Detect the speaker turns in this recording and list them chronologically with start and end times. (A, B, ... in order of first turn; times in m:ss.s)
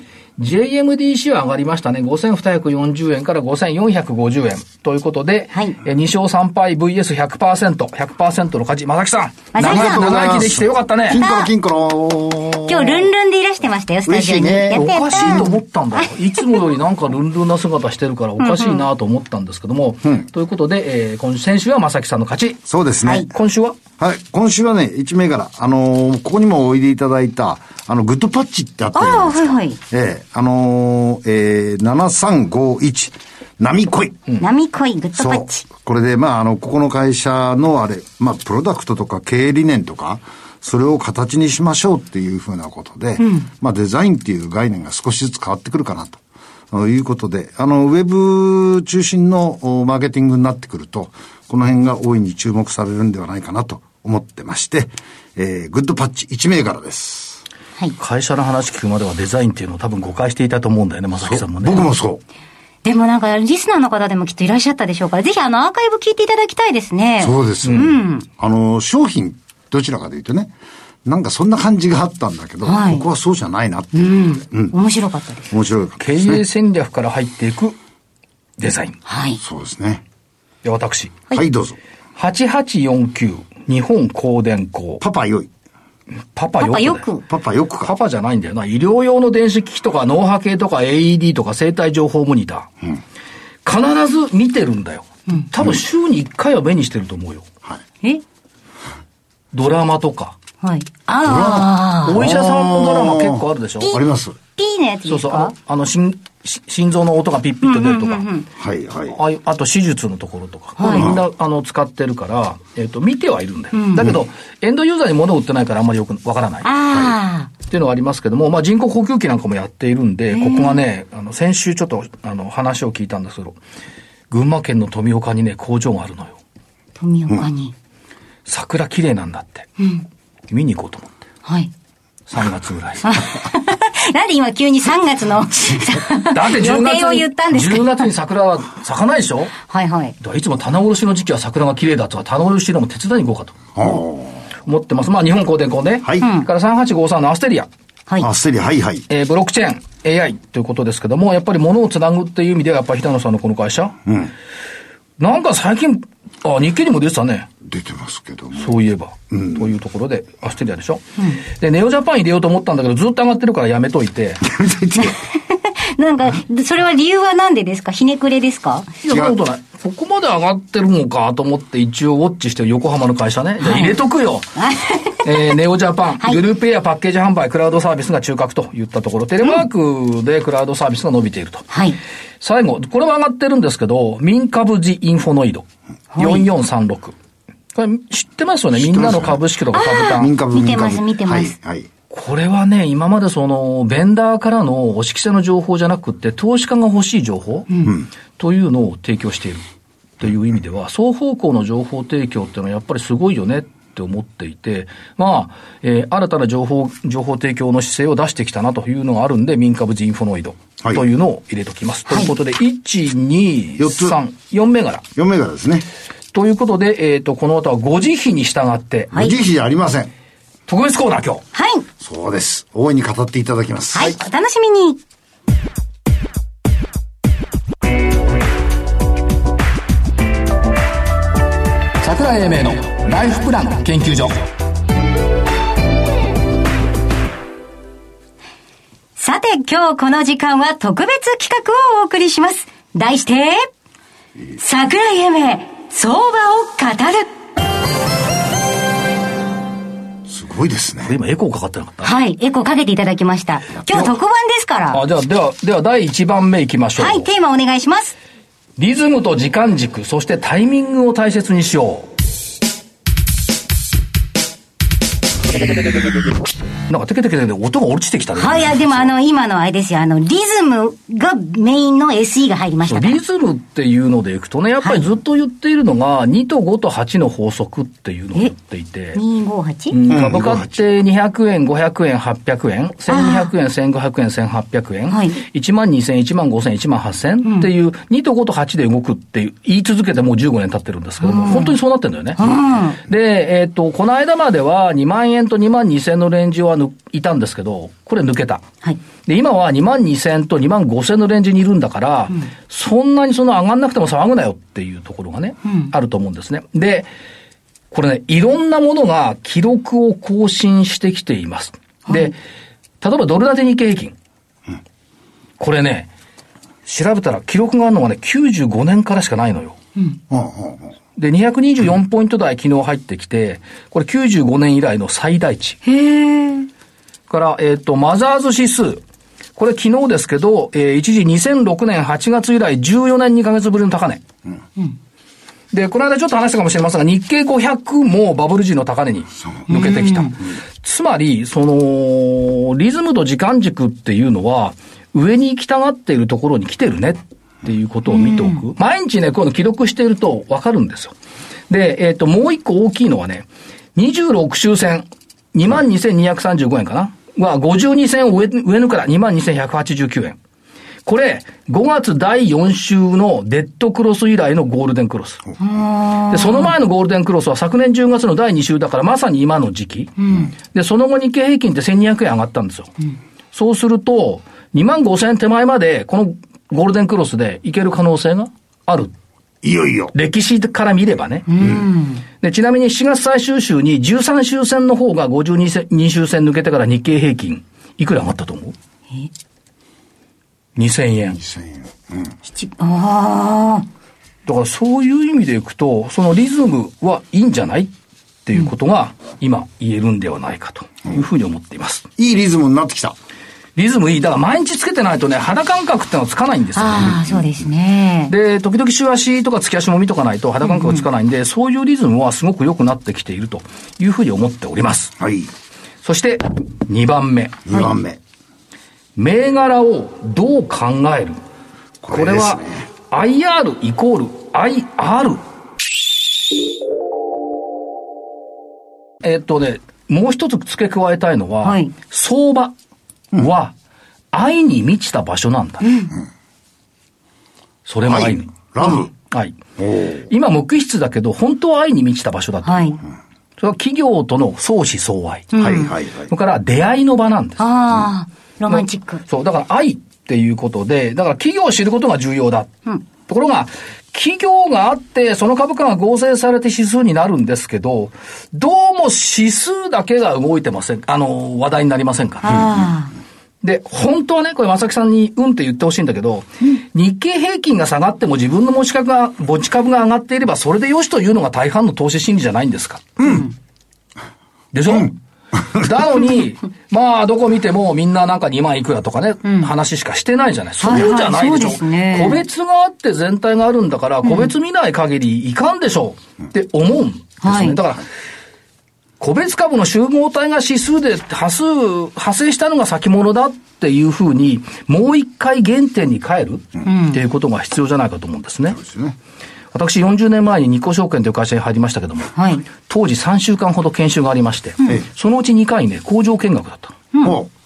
0:00.4-0:11.2 A
0:09.5-0:10.4 B
0:09.6-0:13.1 C
0:11.1-0:11.5 B
0:12.7-0:16.1 B
0:14.0-0:15.5 C
0:14.7-0:22.6 A
0:18.4-0:18.9 B
0:22.7-0:23.3 C
0:23.3-0:23.8 A
0:24.0-0:34.3 C
0:28.9-0:29.8 B
0:34.4-0:35.6 B
0:35.2-0:46.2 C
0:43.2-0:43.5 B
0:46.7-0:57.4 C
0:58.0-1:01.9 A
1:01.2-1:02.2 C
1:02.8-1:08.2 B
1:07.2-1:10.5 C
1:07.6-1:07.9 A
1:11.0-1:14.8 C
1:12.6-1:13.1 B
1:13.9-1:15.5 B
1:15.5-1:16.4 C
1:16.0-1:17.8 A
1:18.6-1:19.0 A
1:19.1-1:19.4 B
1:19.4-1:20.0 C
1:20.6-1:21.2 A
1:21.3-1:21.8 C
1:22.2-1:25.0 A
1:25.0-1:25.5 C
1:26.3-1:27.0 A
1:26.6-1:27.2 B
1:27.2-1:27.9 C
1:27.8-1:32.7 A
1:33.6-1:37.4 A
1:39.5-1:40.4 A
1:40.6-1:42.2 B
1:41.2-1:44.4 C
1:42.0-1:44.0 A
1:44.6-1:45.5 B
1:45.0-1:48.3 A
1:47.6-1:48.4 B
1:48.6-1:49.2 C
1:49.1-1:56.7 A
1:50.8-1:51.1 B
1:50.9-1:51.2 C
1:53.7-1:54.1 B
1:56.6-1:57.5 B
1:57.7-2:03.6 A
2:00.3-2:00.8 B
2:04.3-2:06.4 A
2:07.0-2:07.7 B
2:08.5-2:09.7 A
2:10.5-2:11.2 A
2:11.4-2:11.7 B
2:12.3-2:13.2 A
2:13.0-2:18.0 B
2:16.2-2:19.5 A
2:19.7-2:20.1 B
2:20.2-2:23.6 A
2:23.7-2:24.4 C
2:24.6-2:27.7 A
2:26.0-2:26.3 C
2:26.2-2:26.5 B
2:28.2-2:29.0 C
2:29.1-2:34.0 A
2:34.0-2:34.3 C
2:35.2-2:37.5 A
2:37.6-2:38.8 C
2:38.5-2:44.4 A
2:39.3-2:39.6 C
2:44.4-2:45.2 C
2:45.0-2:48.9 B
2:49.0-2:54.5 A
2:49.1-2:49.4 C
2:53.6-2:54.0 B
2:54.5-2:55.2 B
2:55.2-3:01.6 A
3:01.7-3:02.0 B
3:02.4-3:07.1 A
3:06.1-3:06.5 B
3:07.7-3:10.3 A
3:08.7-3:09.4 C
3:09.7-3:11.5 B
3:10.1-3:11.9 C
3:12.1-3:17.8 A
3:18.4-3:19.6 A
3:20.2-3:35.0 A
3:33.8-3:34.2 C
3:35.2-3:35.8 C
3:36.3-3:39.1 A
3:39.1-3:40.1 C
3:40.7-3:41.4 A
3:41.5-3:41.8 B
3:42.0-3:44.2 C
3:43.9-3:45.0 B
3:52.0-3:54.4 A
3:59.2-4:03.6 B
4:04.6-4:07.3 B
4:10.3-4:11.2 C
4:11.0-4:12.1 A
4:12.0-4:15.0 B
4:13.9-4:14.2 A
4:14.9-4:17.3 A
4:17.0-4:18.1 B
4:18.8-4:22.1 A
4:26.9-4:29.1 A
4:28.3-4:33.2 B
4:32.8-4:39.2 A
4:34.8-4:35.1 B
4:39.1-4:40.0 B
4:39.9-4:58.6 A
4:40.1-4:40.8 C
4:43.1-4:43.5 B
4:45.1-4:45.4 B
4:47.4-4:47.7 B
4:51.2-4:51.8 B
4:52.4-4:53.0 B
4:59.2-5:07.1 A
5:05.6-5:05.9 B
5:07.9-5:12.4 A
5:13.0-5:14.1 A
5:15.6-5:16.1 A
5:16.8-5:19.8 A
5:20.3-5:20.9 C
5:21.2-5:25.8 A
5:25.8-5:26.7 B
5:27.3-5:29.0 A
5:29.6-5:34.2 A
5:35.7-5:51.1 A
5:39.7-5:40.3 B
5:48.1-5:48.6 B
5:51.7-6:00.4 A
6:01.0-6:05.4 A
6:05.6-6:06.7 B
6:06.3-6:12.9 A
6:10.2-6:10.5 B
6:13.5-6:19.1 A
6:19.6-6:20.1 C
6:20.1-6:21.5 A
6:21.5-6:22.2 B
6:22.4-6:28.7 A
6:30.8-6:31.4 A
6:31.4-6:32.3 C
6:32.5-6:33.8 B
6:34.4-6:37.9 A
6:38.4-6:42.1 A
6:42.2-6:43.1 C
6:43.8-6:47.2 A
6:46.8-6:48.3 B
6:46.9-6:47.6 C
6:48.3-6:55.1 A
6:50.6-6:51.0 B
6:55.2-6:55.5 C
6:56.0-6:57.6 A
6:57.6-6:58.2 C
6:59.2-7:01.4 A
7:02.0-7:02.9 C
7:02.1-7:05.4 A
7:09.2-7:12.7 A
7:11.6-7:11.9 B
7:13.3-7:13.7 A
7:14.3-7:15.9 A
7:15.8-7:16.1 B
7:17.8-7:19.6 A
7:18.0-7:19.1 C
7:19.8-7:20.3 C
7:20.3-7:23.0 A
7:22.6-7:23.0 B
7:23.6-7:25.5 A
7:25.5-7:25.9 B
7:25.6-7:26.3 C
7:26.3-7:27.6 A
7:27.6-7:29.2 B
7:28.7-7:32.7 A
7:33.2-7:42.6 A
7:42.4-7:43.1 B
7:42.5-7:42.8 C
7:43.6-7:53.2 A
7:53.2-7:53.5 B
7:54.7-7:55.2 A
7:55.7-8:08.0 A
7:59.4-7:59.7 B
8:00.8-8:02.4 B
8:04.2-8:04.5 B
8:07.4-8:07.8 B
8:09.2-8:18.8 A
8:16.8-8:17.2 B
8:18.7-8:19.2 C
8:19.7-8:27.0 A
8:22.3-8:22.6 B
8:27.1-8:27.4 B
8:27.2-8:27.5 C